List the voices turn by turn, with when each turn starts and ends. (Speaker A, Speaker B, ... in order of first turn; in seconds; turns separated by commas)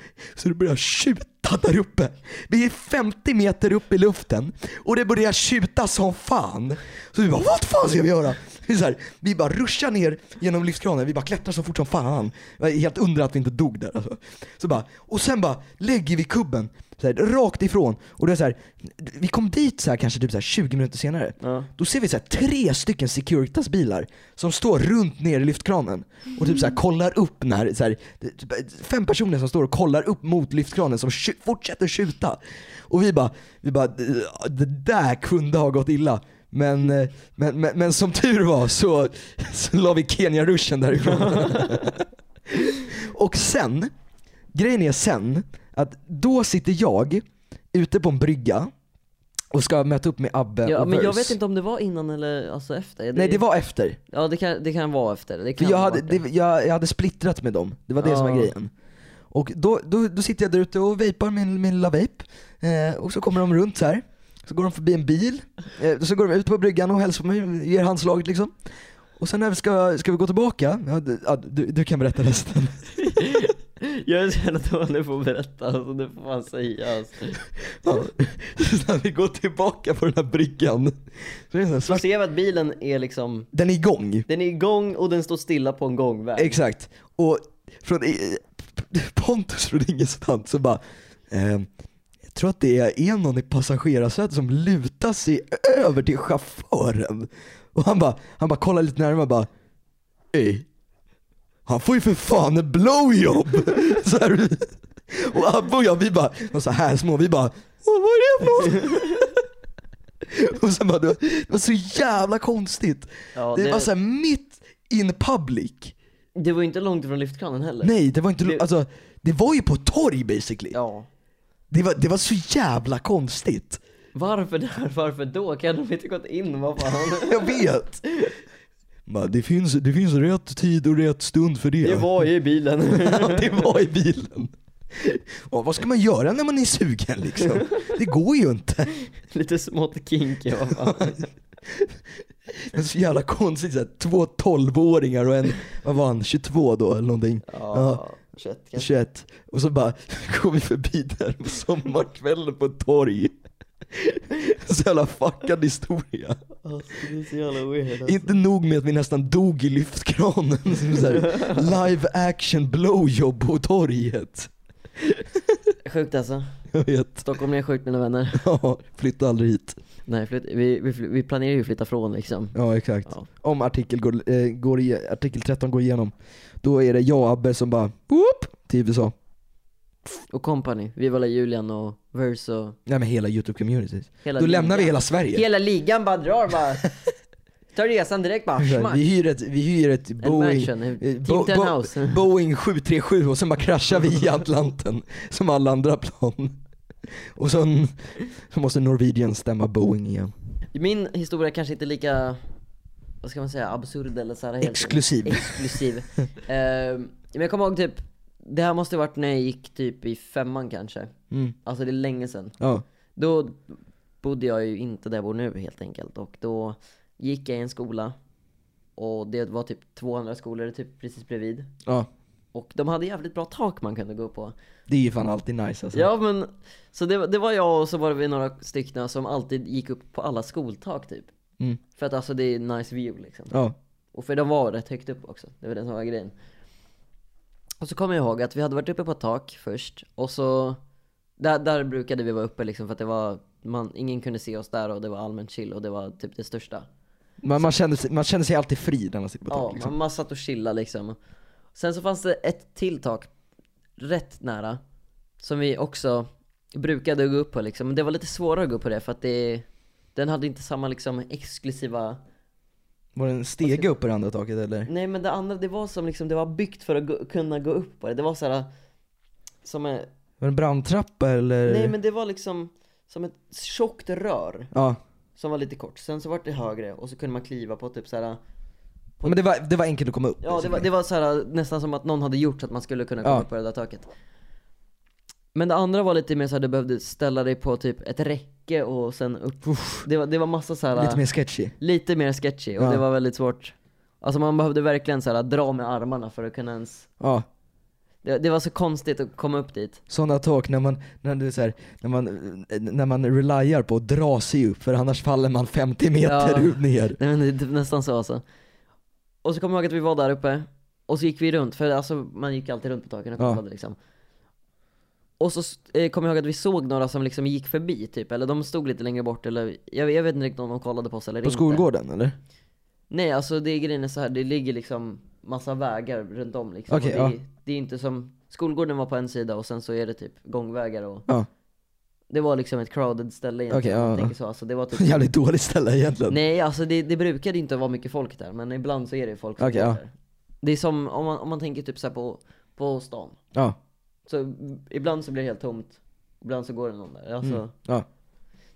Speaker A: 0.3-43.9, Speaker B: 21.4-21.7, Speaker B: 41.1-41.9, Speaker A: 44.5-48.7, Speaker A: 49.5-51.4, Speaker B: 50.6-53.4, Speaker A: 53.1-54.0, Speaker B: 54.1-56.2, Speaker A: 55.6-58.7, Speaker B: 58.0-58.5, Speaker A: 59.3-68.5, Speaker A: 69.2-73.4, Speaker B: 73.0-77.4, Speaker A: 77.7-82.0, Speaker B: 81.8-83.5, Speaker A: 83.5-84.2, Speaker B: 84.3-86.6, Speaker A: 86.3-91.7, Speaker A: 92.2-99.5, Speaker A: 100.3-100.7, Speaker A: 101.7-109.4, Speaker B: 108.7-109.0, Speaker A: 110.2-116.0, Speaker B: 113.3-113.9, Speaker B: 116.3-118.6, Speaker A: 117.8-120.8, Speaker B: 120.7-121.1, Speaker A: 121.7-123.8, Speaker B: 124.2-128.3, Speaker A: 127.0-128.0, Speaker A: 129.1-132.3, Speaker B: 131.8-133.7, Speaker A: 132.8-139.0, Speaker B: 137.7-137.9, Speaker B: 139.3-141.3, Speaker A: 140.7-141.9, Speaker A: 142.5-148.0, Speaker B: 147.5-148.9, Speaker A: 148.8-153.3, Speaker A: 153.9-156.4, Speaker B: 156.6-158.3, Speaker A: 158.0-165.7, Speaker B: 161.2-161.6, Speaker B: 165.8-166.5, Speaker A: 166.7-167.3, Speaker B: 167.2-168.4, Speaker A: 168.3-169.8, Speaker B: 170.1-173.3, Speaker A: 172.5-179.2, Speaker B: 180.3-182.8, Speaker A: 182.8-185.4, Speaker B: 184.2-186.9, Speaker B: 187.7-189.0, Speaker A: 188.6-196.6, Speaker B: 190.2-192.2, Speaker A: 197.3-200.3, Speaker B: 200.7-202.4, Speaker B: 203.2-211.1, Speaker A: 204.6-205.8, Speaker B: 211.7-212.6, Speaker B: 213.2-218.2, Speaker B: 219.0-221.7, Speaker B: 222.5-224.5, Speaker A: 224.9-226.1, Speaker B: 225.9-231.3, Speaker B: 232.0-233.5, Speaker B: 234.1-236.3, Speaker B: 237.8-240.8, Speaker B: 241.4-246.9, Speaker A: 247.4-249.9, Speaker B: 249.5-251.2, Speaker B: 251.8-253.3, Speaker B: 254.0-254.8, Speaker B: 255.4-262.2, Speaker A: 263.1-264.9, Speaker B: 263.6-263.9, Speaker B: 264.9-268.7, Speaker B: 269.6-270.1, Speaker A: 270.4-271.9, Speaker B: 271.7-274.7, Speaker A: 274.7-275.0, Speaker B: 275.4-278.4, Speaker A: 279.2-280.9, Speaker B: 280.4-284.1, Speaker B: 285.5-291.2, Speaker A: 289.7-290.0, Speaker A: 291.0-291.7, Speaker B: 291.8-297.1, Speaker A: 297.2-297.5, Speaker B: 298.2-300.0, Speaker A: 300.1-307.2, Speaker B: 306.2-308.4, Speaker B: 309.4-314.0, Speaker B: 315.4-321.9, Speaker A: 321.4-322.3, Speaker B: 323.1-331.2, Speaker A: 326.9-327.3, Speaker B: 332.3-335.3, Speaker A: 333.7-334.3, Speaker A: 334.9-336.4, Speaker B: 336.3-343.4, Speaker A: 339.6-340.0, Speaker B: 344.3-347.7, Speaker A: 347.4-348.1